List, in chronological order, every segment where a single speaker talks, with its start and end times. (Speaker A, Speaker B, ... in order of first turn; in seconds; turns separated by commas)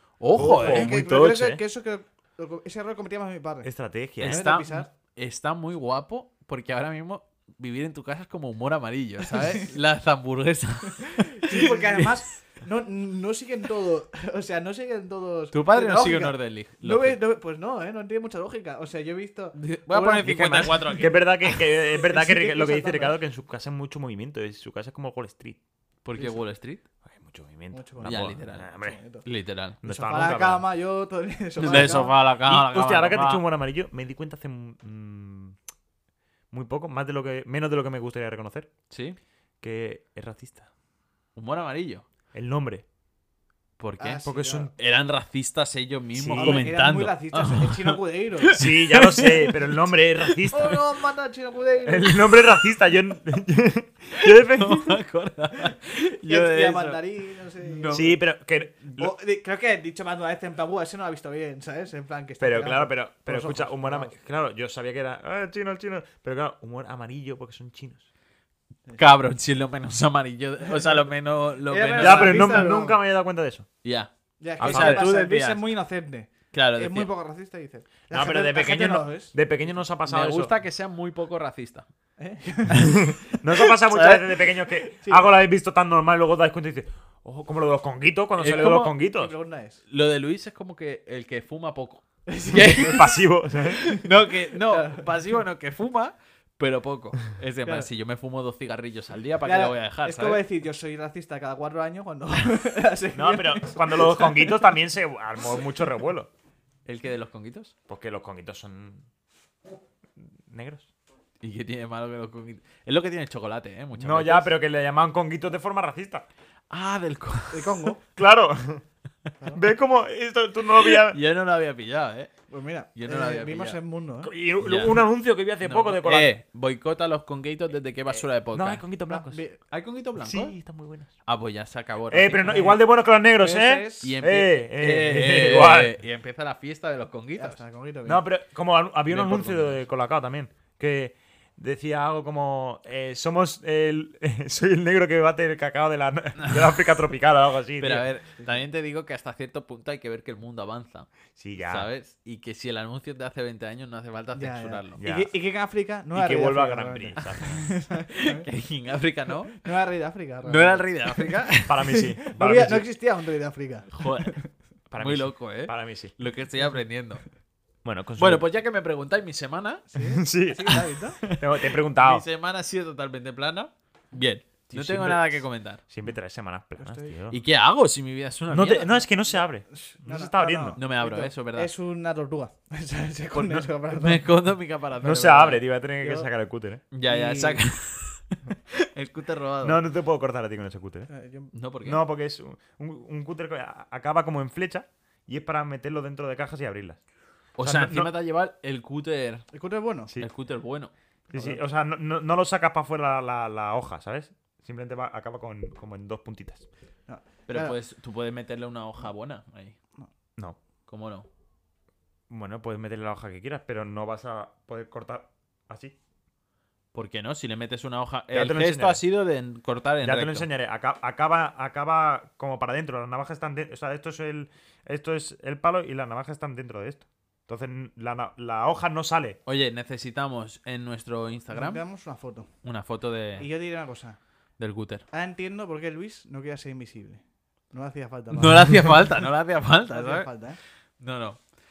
Speaker A: 0.2-1.0, Speaker B: 0.4-1.6, Speaker C: 0.5-3.7, Speaker B: 3.6-4.4, Speaker A: 4.2-12.2, Speaker C: 4.2-4.9, Speaker C: 9.3-9.7, Speaker C: 11.1-21.1, Speaker A: 15.5-17.2, Speaker A: 19.5-21.5, Speaker B: 21.0-25.6, Speaker C: 21.8-23.2, Speaker A: 26.1-26.8, Speaker C: 26.2-26.4, Speaker B: 27.1-29.0, Speaker C: 27.7-29.3, Speaker A: 28.0-28.7, Speaker A: 29.2-29.8, Speaker B: 29.8-30.6, Speaker C: 29.8-32.2, Speaker A: 31.6-33.4, Speaker B: 31.7-35.6, Speaker B: 36.5-38.7, Speaker A: 38.9-39.2, Speaker B: 39.6-40.7, Speaker A: 41.4-42.1, Speaker B: 42.3-42.9, Speaker A: 43.8-50.7, Speaker C: 44.0-44.7, Speaker B: 44.2-44.7, Speaker B: 46.1-46.8, Speaker C: 46.3-48.7, Speaker B: 48.5-50.8, Speaker C: 50.5-52.3, Speaker B: 51.8-55.0, Speaker A: 54.1-57.0, Speaker C: 56.2-58.0, Speaker A: 57.6-58.2, Speaker B: 57.9-59.1, Speaker C: 58.9-64.1, Speaker B: 62.4-68.1, Speaker A: 69.0-72.7, Speaker C: 71.7-73.0, Speaker B: 72.0-73.7, Speaker A: 73.8-75.7, Speaker C: 74.4-79.4, Speaker B: 74.6-75.1, Speaker A: 76.5-77.1, Speaker B: 78.1-80.5, Speaker A: 80.1-81.9, Speaker C: 82.2-83.0, Speaker A: 82.7-83.0, Speaker B: 82.9-89.3, Speaker A: 83.6-84.2, Speaker A: 88.4-88.9, Speaker C: 88.6-89.8, Speaker A: 89.9-93.1, Speaker C: 92.3-93.1, Speaker B: 92.8-93.8, Speaker A: 93.7-100.4, Speaker C: 94.6-95.1, Speaker C: 99.4-104.7, Speaker B: 103.1-106.3, Speaker A: 106.9-107.7, Speaker B: 107.9-109.0, Speaker B: 110.5-110.9, Speaker A: 111.4-114.5, Speaker B: 114.0-116.3, Speaker A: 116.7-117.9, Speaker C: 117.5-118.0, Speaker B: 118.2-118.8, Speaker C: 119.4-119.7, Speaker B: 119.5-121.2, Speaker A: 120.8-122.3, Speaker C: 122.5-124.3, Speaker A: 123.0-123.8, Speaker B: 124.2-126.3, Speaker A: 124.6-125.0, Speaker A: 125.6-128.8, Speaker B: 128.5-129.4, Speaker C: 129.1-129.6, Speaker A: 129.7-130.6, Speaker B: 130.2-131.1, Speaker A: 131.2-132.8, Speaker B: 132.1-135.9, Speaker C: 132.4-132.8, Speaker C: 133.4-134.2, Speaker A: 134.0-137.6, Speaker C: 137.4-138.2, Speaker B: 138.1-148.1, Speaker A: 139.1-139.8, Speaker A: 147.8-151.1, Speaker B: 151.4-151.9, Speaker A: 151.6-155.0, Speaker C: 154.3-158.5, Speaker B: 155.0-155.3, Speaker B: 156.1-157.7, Speaker A: 157.9-159.7, Speaker C: 159.5-164.5, Speaker A: 160.5-161.8, Speaker B: 161.7-162.9, Speaker A: 163.9-164.4, Speaker B: 164.9-166.2, Speaker A: 165.0-167.2, Speaker B: 167.8-168.4, Speaker A: 168.2-169.8, Speaker C: 169.9-171.2, Speaker B: 170.0-172.2, Speaker A: 171.2-175.8, Speaker B: 174.7-177.4, Speaker C: 176.8-177.2, Speaker A: 177.3-179.0, Speaker B: 178.5-180.8, Speaker C: 179.3-184.3, Speaker A: 180.8-181.7, Speaker A: 183.4-185.6, Speaker B: 185.0-186.8, Speaker C: 186.0-186.3, Speaker A: 186.9-189.8, Speaker C: 187.0-187.6, Speaker B: 189.6-191.1, Speaker C: 191.1-191.5, Speaker A: 191.5-192.0, Speaker B: 191.8-197.0, Speaker A: 197.6-199.5, Speaker B: 197.6-198.1, Speaker C: 199.5-200.1, Speaker A: 200.2-200.9, Speaker C: 201.3-201.6, Speaker B: 201.3-206.7, Speaker C: 207.1-207.8, Speaker A: 207.5-209.8, Speaker A: 210.9-211.3, Speaker B: 212.3-215.9, Speaker A: 216.9-220.5, Speaker B: 218.3-219.0, Speaker B: 220.0-229.4, Speaker A: 229.5-231.8, Speaker C: 231.5-232.5, Speaker A: 232.6-233.5, Speaker C: 233.4-234.2, Speaker A: 234.6-235.0, Speaker C: 235.1-239.1, Speaker A: 238.3-240.3, Speaker C: 239.9-240.6, Speaker A: 241.0-241.4